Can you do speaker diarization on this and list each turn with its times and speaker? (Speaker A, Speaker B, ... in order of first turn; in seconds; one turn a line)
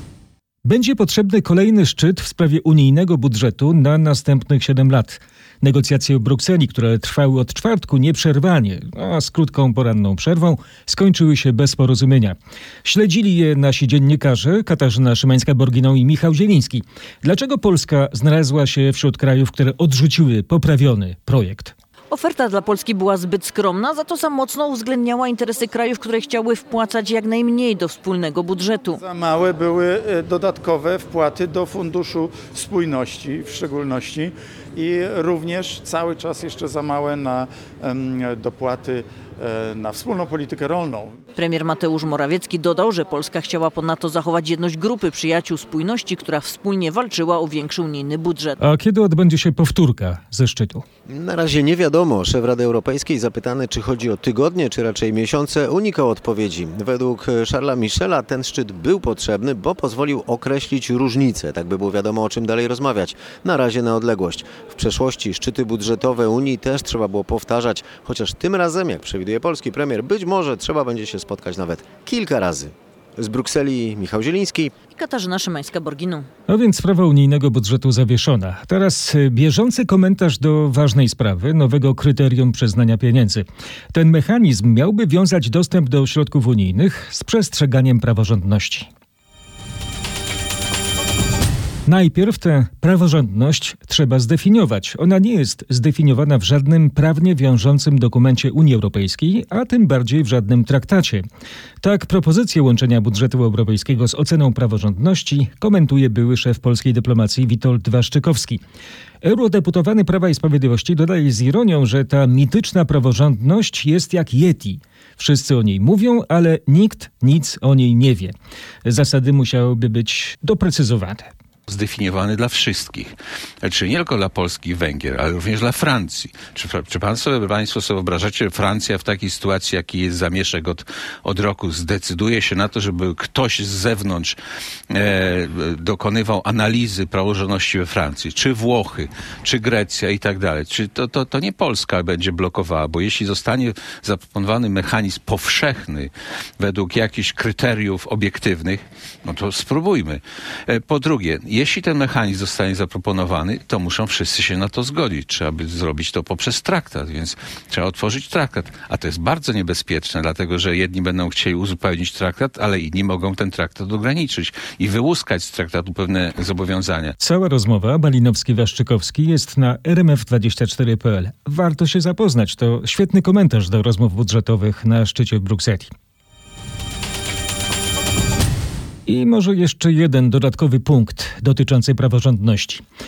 Speaker A: 0.7-21.7
Speaker B: 22.1-29.0
Speaker C: 29.0-41.1
Speaker B: 41.4-48.6
Speaker A: 48.6-50.9
Speaker D: 51.1-74.7
Speaker B: 74.9-76.3
Speaker A: 76.5-88.9
Speaker A: 91.9-101.2
Speaker A: 101.8-108.6
Speaker A: 109.2-121.3
Speaker E: 121.7-134.4
Speaker E: 134.9-167.2
Speaker A: 167.2-175.9
Speaker A: 179.1-182.8